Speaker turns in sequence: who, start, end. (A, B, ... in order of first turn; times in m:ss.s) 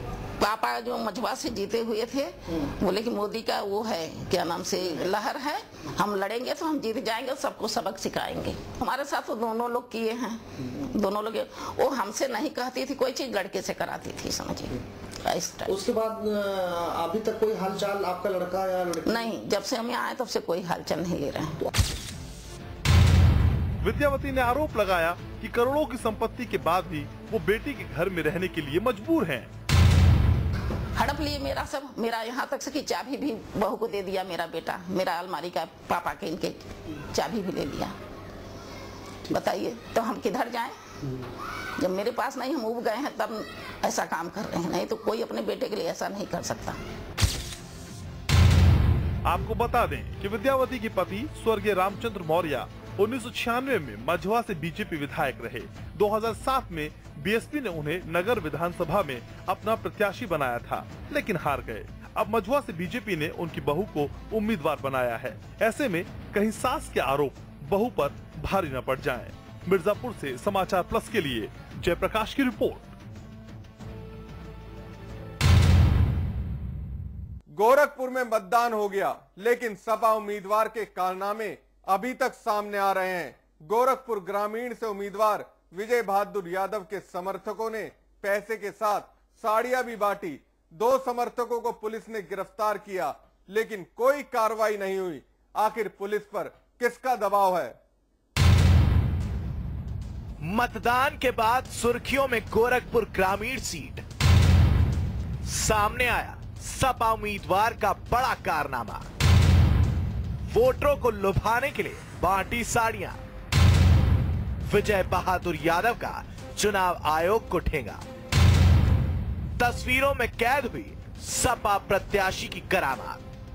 0:00.4-0:15.8 A
0:15.6-0:19.3 B
0:19.0-0:21.5 A
0:23.8-0:29.5 C
0:30.9-0:38.0 A
0:39.3-0:40.7 A
0:41.8-0:46.8 A
0:49.2-1:12.9 C
1:17.5-1:37.8 D
1:40.4-1:44.0 E
1:45.4-1:49.1 E
1:50.5-1:53.2 E
1:54.7-1:58.0 E
1:59.6-2:03.2 E